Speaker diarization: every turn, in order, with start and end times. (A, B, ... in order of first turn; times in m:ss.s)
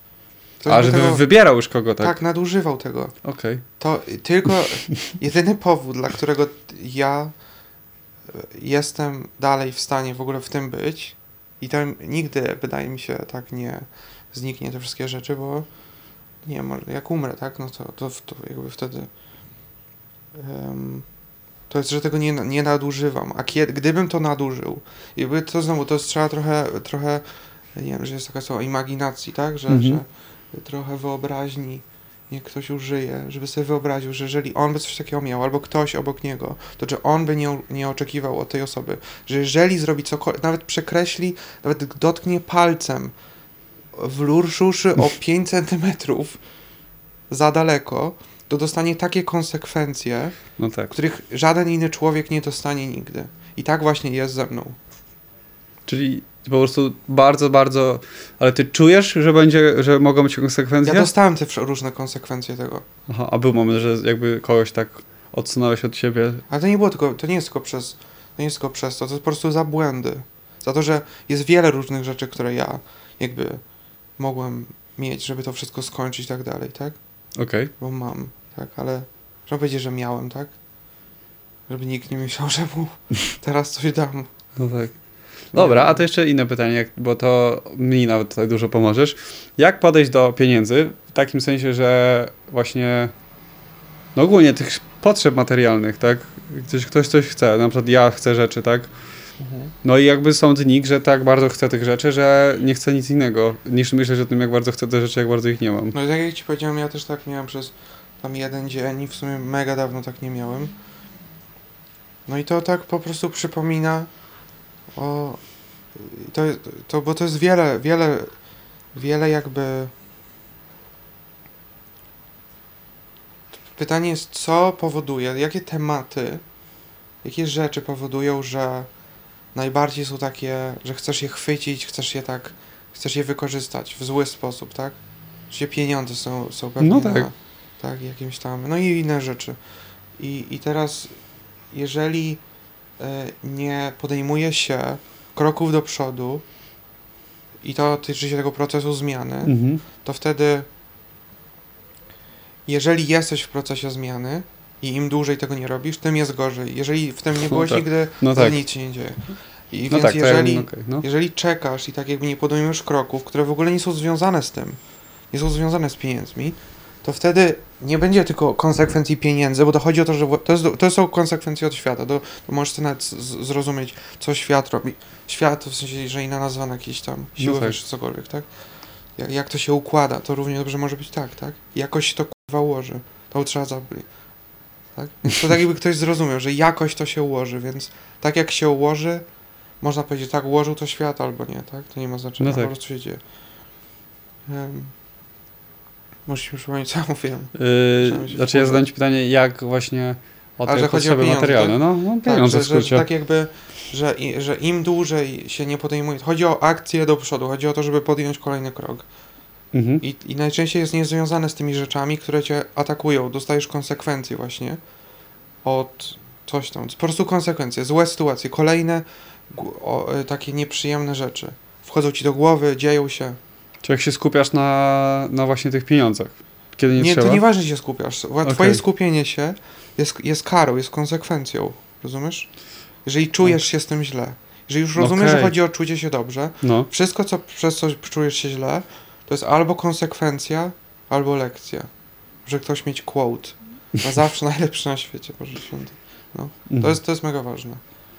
0:00.6-0:01.3 A
0:00.7-0:02.2 B
0:02.0-0:03.1 A
0:03.2-0:03.6 B
0:03.8-0:07.3 A
0:08.3-0:15.7 A
0:16.4-0:19.1 A
0:20.3-0:21.1 A
0:21.7-0:27.2 A
0:27.7-0:43.1 A
0:29.7-0:30.0 B
0:43.9-0:46.4 A
0:47.3-0:50.4 A
0:50.6-0:50.9 B
0:50.9-0:54.8 A
0:55.8-1:01.1 B
1:00.8-1:02.8 A
1:03.1-1:06.4 B
1:06.5-1:13.6 A
1:14.2-1:17.0 A
1:17.4-1:17.7 B
1:17.8-1:20.5 A
1:21.7-1:24.3 A
1:24.6-1:33.1 B
1:25.5-1:26.0 A
1:34.1-1:38.9 B
1:39.4-1:39.7 A
1:39.8-1:46.0 B
1:45.9-1:50.7 A
1:52.3-1:54.1 A
1:55.0-1:58.3 A
1:58.9-1:59.9 A
2:03.7-2:06.4 A
2:07.2-2:08.9 A
2:09.5-2:15.0 A
2:15.5-2:19.6 A
2:16.8-2:17.3 B
2:20.2-2:21.2 A
2:21.7-2:22.4 A
2:23.0-2:26.4 A
2:27.6-2:30.7 A
2:29.4-2:29.8 B
2:32.7-2:39.2 A
2:37.5-2:38.6 B
2:39.7-2:44.8 A
2:39.9-2:41.0 B
2:45.3-2:58.5 A
2:57.4-2:57.8 B
2:59.1-3:04.1 A
3:05.0-3:09.2 A
3:09.8-3:13.2 A
3:12.4-3:12.7 B
3:14.5-3:14.9 A
3:16.2-3:18.8 A
3:17.5-3:23.0 B
3:20.7-3:29.0 A
3:29.7-3:30.0 B
3:30.0-3:34.8 A
3:35.6-3:43.4 A
3:43.8-3:47.4 B
3:47.0-4:01.9 A
3:48.4-3:48.8 B
3:55.0-3:55.5 B
3:56.6-3:56.9 B
4:02.4-4:07.8 A
4:06.7-4:07.0 B